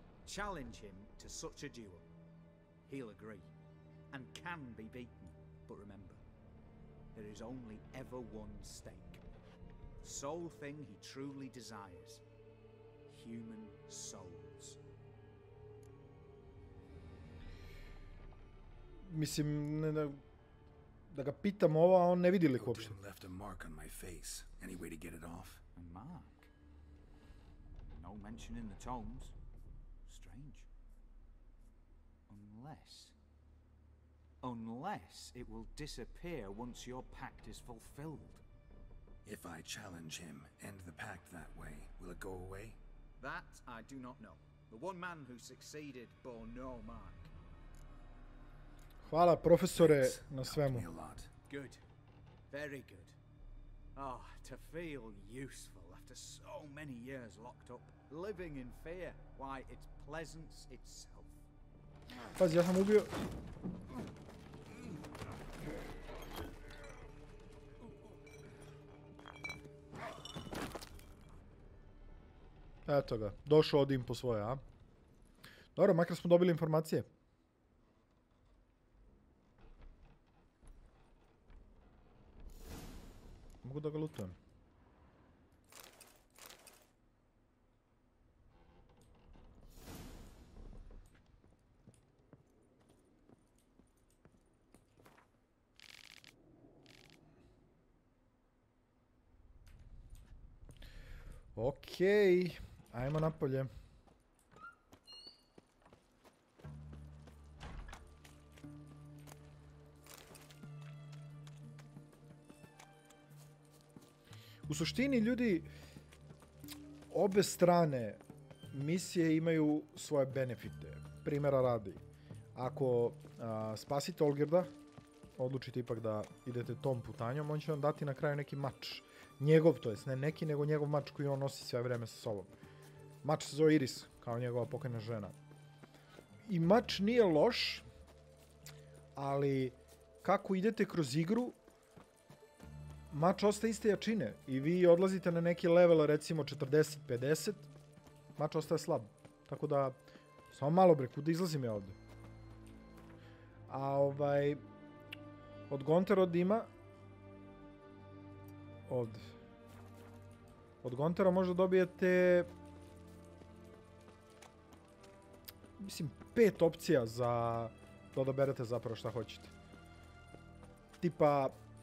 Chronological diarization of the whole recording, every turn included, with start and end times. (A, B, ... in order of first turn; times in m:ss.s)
0:00.2-0:02.1 A
0:02.9-0:03.5 A
0:04.1-0:06.2 A
0:07.1-0:09.2 A
0:10.0-0:12.2 A
0:13.1-0:14.8 A
0:19.0-0:20.2 B
0:21.1-0:23.0 B
0:22.6-0:25.6 C
0:25.8-0:26.5 A
0:27.8-0:29.4 A
0:30.1-0:30.7 A
0:32.3-0:33.1 A
0:34.4-0:38.4 A
0:39.2-0:42.8 C
0:43.2-0:47.3 A
0:49.0-0:50.9 B
0:49.8-0:51.3 C
0:51.5-0:51.8 A
0:52.5-0:53.2 A
0:54.0-1:01.5 A
1:02.3-1:03.1 B
1:12.9-1:14.6 B
1:15.8-1:17.1 B
1:23.6-1:24.4 B
1:41.6-1:43.7 B
1:54.7-1:55.7 B
1:57.1-2:02.0 B
2:02.6-2:04.7 B
2:05.4-2:12.5 B
2:13.2-2:15.4 B
2:16.4-2:17.9 B
2:19.2-2:21.6 B
2:23.1-2:27.7 B
2:28.4-2:30.0 B
2:30.5-2:32.0 B
2:33.7-2:34.6 B
2:35.7-2:36.7 B
2:38.9-2:39.3 B
2:40.8-2:42.5 B
2:45.8-2:49.5 B
2:51.0-2:51.6 B